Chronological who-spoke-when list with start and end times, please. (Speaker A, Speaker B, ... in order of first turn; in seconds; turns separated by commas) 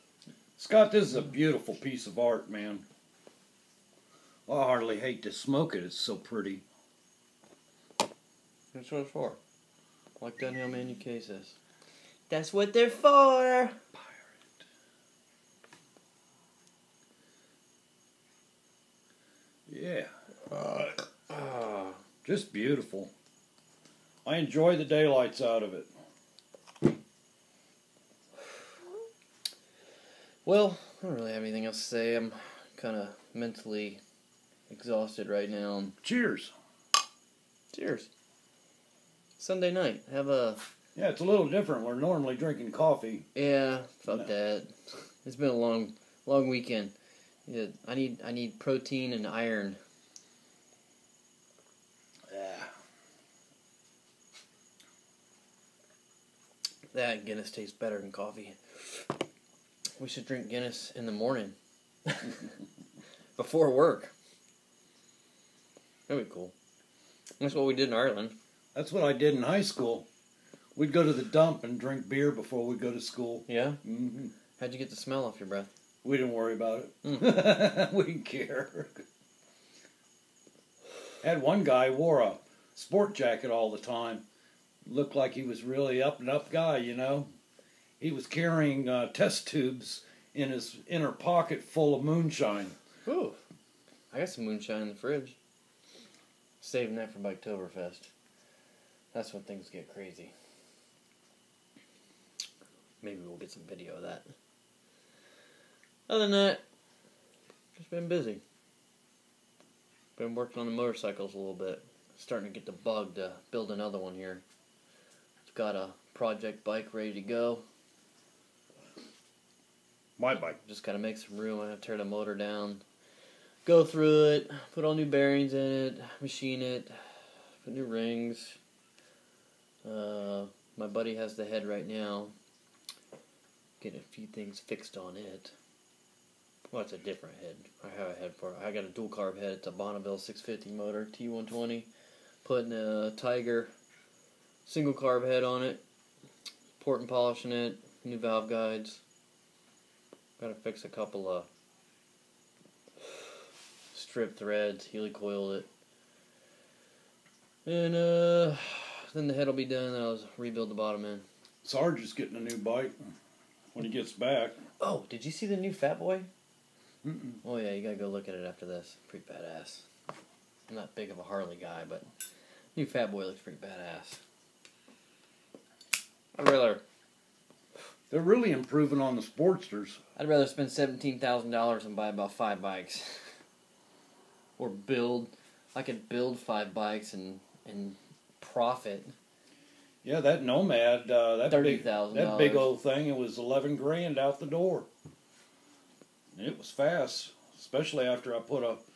Speaker A: 0.6-2.8, Speaker A: 4.5-6.6, Speaker B: 8.7-9.4, Speaker B: 10.2-11.6, Speaker B: 12.3-13.8, Speaker A: 19.7-20.1, Speaker B: 20.5-22.0, Speaker A: 22.2-23.1, Speaker A: 24.2-25.9, Speaker B: 30.4-34.0, Speaker B: 34.7-36.0, Speaker A: 36.0-36.5, Speaker B: 37.7-38.1, Speaker B: 39.4-40.6, Speaker A: 41.0-43.2, Speaker B: 43.3-44.7, Speaker B: 45.2-46.9, Speaker B: 47.5-49.8, Speaker A: 52.3-52.7, Speaker B: 56.9-59.0, Speaker B: 60.0-61.5, Speaker B: 62.0-62.5, Speaker B: 63.4-64.1, Speaker B: 66.1-66.5, Speaker B: 67.4-68.3, Speaker A: 68.7-70.1, Speaker A: 70.8-74.3, Speaker B: 73.5-73.8, Speaker B: 74.6-75.7, Speaker A: 76.0-79.0, Speaker B: 77.0-77.4, Speaker A: 81.2-84.2, Speaker A: 84.8-87.3, Speaker A: 88.0-92.8, Speaker B: 93.0-93.4, Speaker B: 94.1-95.4, Speaker B: 96.6-98.1, Speaker B: 99.1-100.3, Speaker B: 103.0-104.3, Speaker B: 106.1-106.6, Speaker B: 107.8-108.4, Speaker B: 110.2-114.4, Speaker B: 115.5-117.6, Speaker A: 120.2-120.6, Speaker B: 120.6-122.8, Speaker B: 123.6-127.0, Speaker B: 127.6-128.6, Speaker B: 129.8-132.3, Speaker B: 133.8-135.5, Speaker B: 136.7-141.9, Speaker B: 142.4-143.7, Speaker B: 144.7-145.8, Speaker B: 146.8-149.0, Speaker B: 150.4-151.5, Speaker B: 153.9-155.7, Speaker B: 157.6-161.2, Speaker A: 161.6-163.0, Speaker A: 163.7-164.6, Speaker B: 164.8-166.3, Speaker A: 167.0-167.4, Speaker B: 167.4-169.8, Speaker B: 170.7-172.1, Speaker B: 172.7-174.2, Speaker B: 176.3-176.8, Speaker A: 178.1-180.0, Speaker B: 180.2-183.3, Speaker B: 184.6-189.1, Speaker A: 190.0-194.9, Speaker B: 191.5-192.7, Speaker A: 196.3-198.8